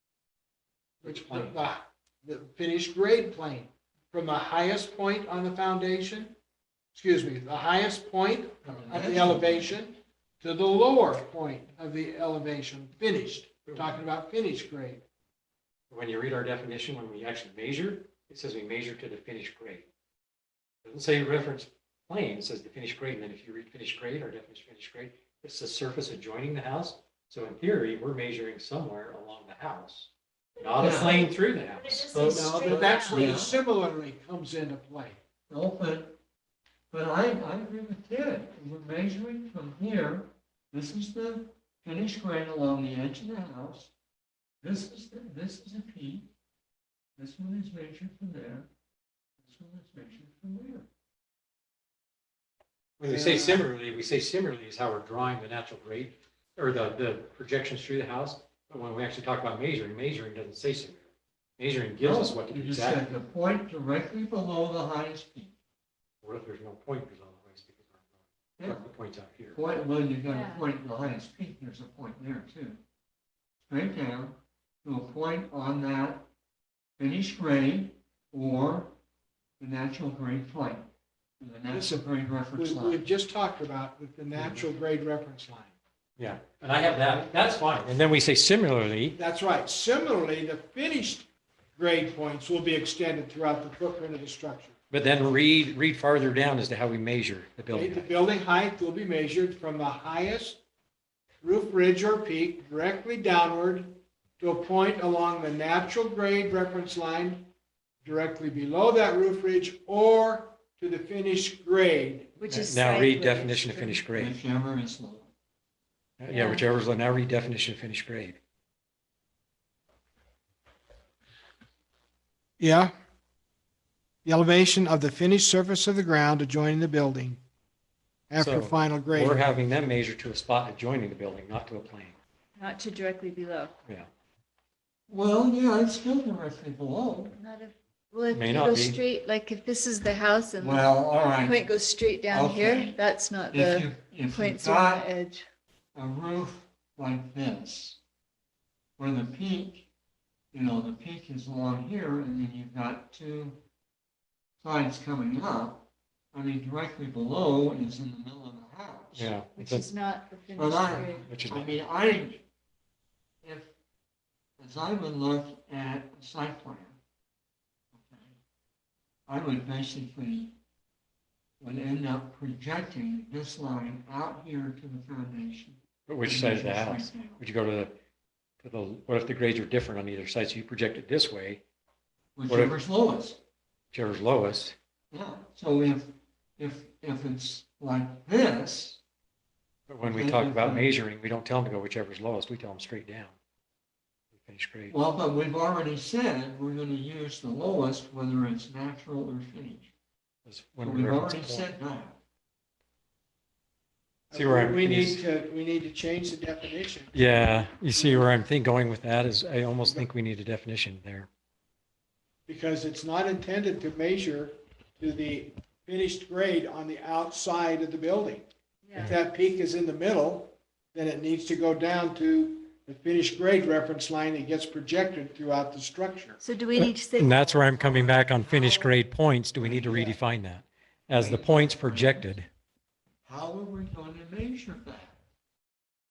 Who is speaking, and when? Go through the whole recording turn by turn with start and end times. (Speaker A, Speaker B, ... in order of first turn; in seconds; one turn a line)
Speaker A: 1.0-6.3
Speaker B: 1.1-1.6
Speaker A: 6.9-15.0
Speaker C: 8.7-9.7
Speaker B: 13.7-14.0
Speaker B: 15.9-19.9
Speaker B: 20.9-32.3
Speaker C: 30.8-31.2
Speaker D: 30.8-31.3
Speaker D: 31.9-33.4
Speaker C: 32.1-33.6
Speaker A: 32.2-35.2
Speaker C: 35.5-36.2
Speaker C: 36.9-43.9
Speaker C: 44.6-46.3
Speaker C: 47.2-48.7
Speaker C: 49.4-50.9
Speaker B: 53.0-61.0
Speaker A: 53.1-53.7
Speaker B: 61.6-63.2
Speaker C: 62.0-65.5
Speaker B: 66.2-68.1
Speaker B: 68.6-69.6
Speaker C: 69.5-72.8
Speaker D: 70.2-70.6
Speaker C: 73.7-76.3
Speaker C: 77.0-78.9
Speaker C: 79.6-80.9
Speaker C: 81.4-83.0
Speaker A: 81.7-85.7
Speaker B: 84.4-84.7
Speaker B: 86.2-89.2
Speaker A: 89.2-94.7
Speaker B: 94.9-98.1
Speaker A: 97.7-100.6
Speaker A: 101.4-107.5
Speaker A: 108.0-112.7
Speaker D: 112.4-114.0
Speaker B: 112.5-114.3
Speaker C: 114.1-115.3
Speaker B: 116.2-118.4
Speaker D: 116.3-116.7
Speaker A: 122.6-122.9
Speaker A: 124.2-127.4
Speaker A: 128.3-129.4
Speaker B: 128.4-132.2
Speaker D: 132.6-133.7
Speaker C: 135.1-137.4
Speaker D: 137.3-140.9
Speaker B: 138.3-139.0
Speaker C: 140.6-141.7
Speaker D: 141.4-145.4
Speaker C: 142.3-143.0
Speaker C: 143.5-145.1
Speaker C: 145.9-148.0
Speaker C: 149.0-149.9
Speaker C: 150.5-153.6
Speaker C: 154.6-159.4
Speaker B: 159.2-159.9
Speaker D: 159.6-161.3
Speaker C: 160.6-162.4
Speaker B: 160.9-161.8
Speaker C: 163.4-163.7
Speaker C: 164.6-167.0
Speaker C: 167.9-168.4
Speaker C: 169.3-170.6
Speaker C: 171.6-177.4
Speaker B: 176.1-177.9
Speaker B: 178.6-181.6
Speaker C: 182.4-183.4
Speaker B: 182.5-182.8
Speaker B: 183.9-184.8
Speaker C: 185.1-189.0
Speaker B: 189.9-193.3
Speaker C: 190.0-190.9
Speaker B: 194.3-195.0
Speaker C: 194.9-199.9
Speaker B: 200.5-201.7
Speaker C: 200.8-202.2
Speaker A: 204.3-208.3
Speaker B: 204.3-205.2
Speaker B: 207.1-211.3
Speaker A: 209.8-210.1
Speaker A: 212.5-218.4
Speaker D: 218.8-219.1
Speaker A: 219.0-226.4
Speaker D: 226.4-227.4
Speaker B: 226.8-232.5
Speaker C: 227.4-230.2
Speaker C: 231.1-232.3
Speaker C: 233.3-235.2